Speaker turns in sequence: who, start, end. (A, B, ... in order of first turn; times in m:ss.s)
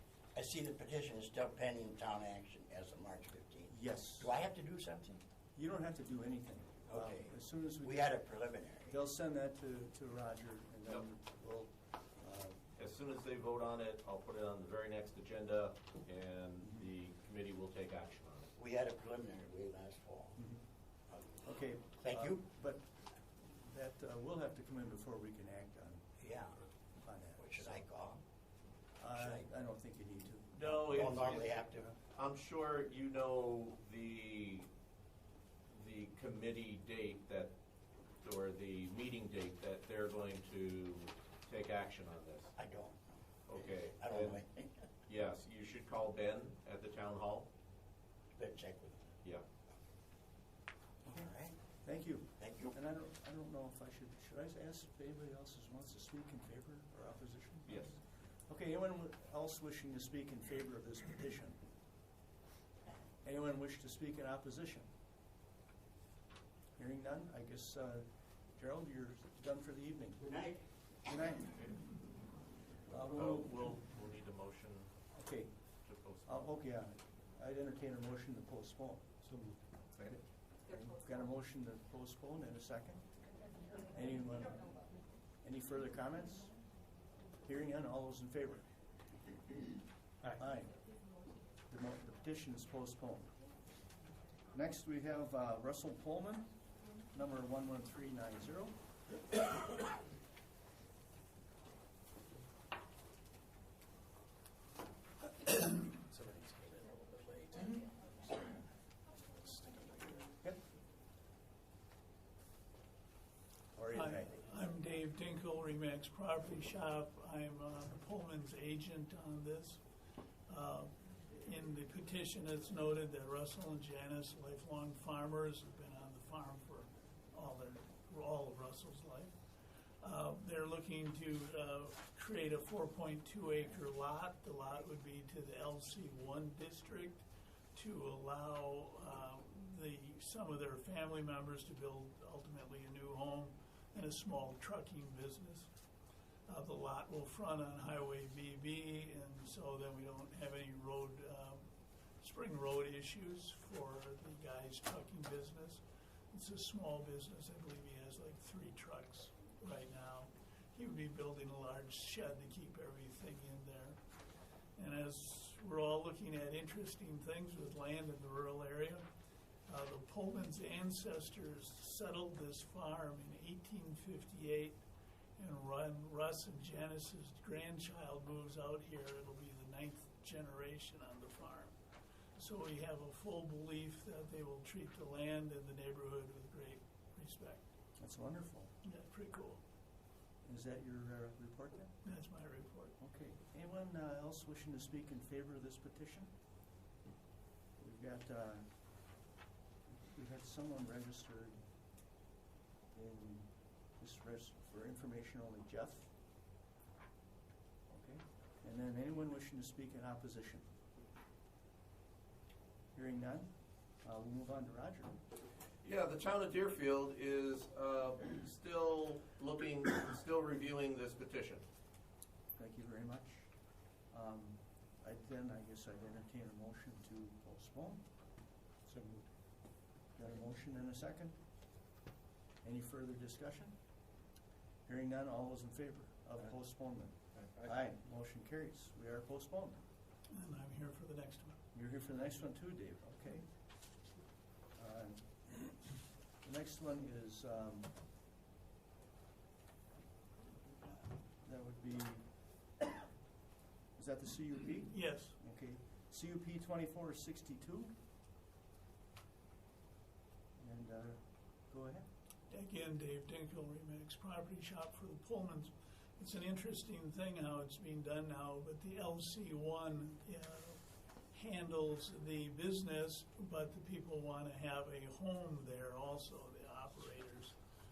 0:00.3-0:05.2 A
0:03.7-0:04.3 B
0:05.6-0:08.2 B
0:06.9-0:09.0 A
0:08.9-0:12.6 B
0:12.8-0:18.5 C
0:18.6-0:20.4 A
0:20.4-0:20.6 B
0:21.4-0:22.9 B
0:22.0-0:22.4 A
0:23.4-0:26.1 B
0:26.2-0:26.6 A
0:27.0-0:27.8 B
0:27.4-0:28.2 A
0:29.0-0:31.9 B
0:29.1-0:29.4 A
0:30.7-0:31.4 C
0:30.8-0:31.9 A
0:32.1-0:34.7 C
0:35.7-0:37.5 C
0:38.2-0:42.5 C
0:42.6-0:44.8 A
0:43.5-0:44.4 C
0:45.1-0:47.5 C
0:48.4-0:49.1 A
0:51.0-0:51.6 A
0:51.8-1:01.6 B
0:52.4-0:52.7 A
0:57.6-0:57.9 C
1:03.2-1:04.9 B
1:06.8-1:10.2 B
1:10.2-1:10.6 A
1:11.0-1:11.8 B
1:12.9-1:13.7 B
1:13.1-1:14.9 C
1:15.1-1:19.2 B
1:15.8-1:16.5 C
1:19.2-1:20.2 C
1:20.6-1:23.0 B
1:23.8-1:24.8 B
1:25.4-1:26.6 B
1:27.4-1:28.7 B
1:30.3-1:30.8 B
1:31.7-1:33.3 B
1:34.5-1:38.8 B
1:45.7-1:48.6 C
1:49.3-1:50.3 C
1:53.7-1:54.4 B
1:53.9-1:59.8 D
2:00.5-2:09.4 D
2:10.0-2:25.7 D
2:26.4-2:44.0 D
2:44.7-2:49.1 D
2:49.6-2:54.8 D
2:55.4-3:01.8 D
3:02.4-3:07.6 D
3:08.0-3:08.7 B
3:08.8-3:09.6 D
3:10.4-3:12.0 B
3:12.0-3:13.0 D
3:13.0-3:16.3 B
3:17.8-3:18.9 B
3:20.0-3:21.6 B
3:22.9-3:26.1 B
3:27.9-3:30.6 B
3:32.9-3:35.2 B
3:35.8-3:41.6 C
3:42.6-3:48.0 B
3:48.9-3:49.3 C
3:50.1-3:51.4 B
3:52.6-3:53.8 B
3:54.8-3:59.8 B
4:00.3-4:01.6 D
4:01.7-4:03.5 B
4:04.7-4:05.7 B
4:06.4-4:07.9 B
4:11.4-4:12.3 B
4:13.9-4:17.9 B
4:14.9-4:15.4 D
4:20.6-4:22.0 B
4:22.5-4:37.6 D